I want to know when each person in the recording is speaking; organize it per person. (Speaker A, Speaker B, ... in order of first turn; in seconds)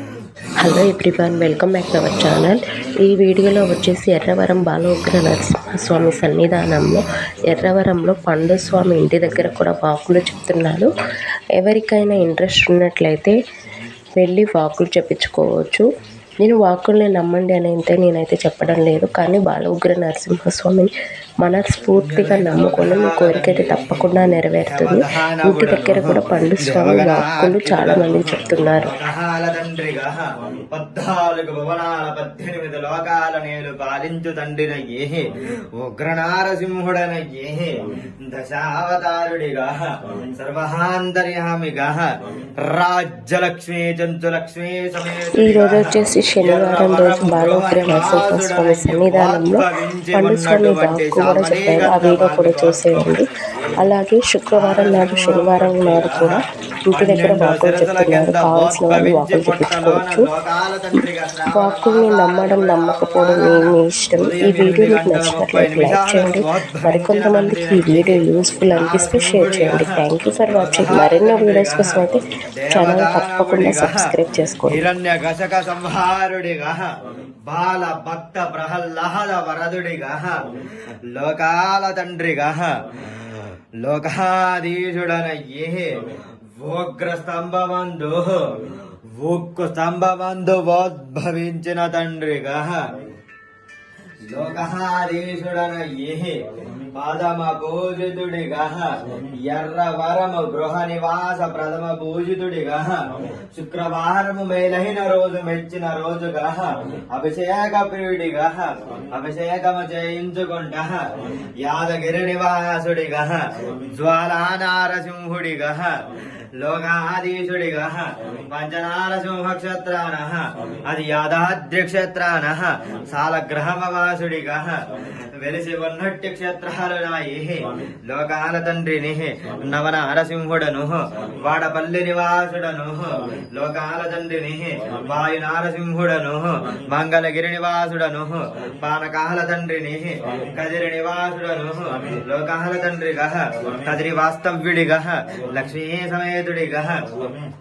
Speaker A: 0.6-10.9, 11.6-13.3, 14.2-15.9, 16.4-20.9, 21.4-28.9, 45.4-53.3, 53.8-60.3, 61.5-74.8
Speaker B: 21.9-53.8, 54.5-56.4, 56.9-74.1, 74.7-80.4, 81.1-92.9, 94.2-147.2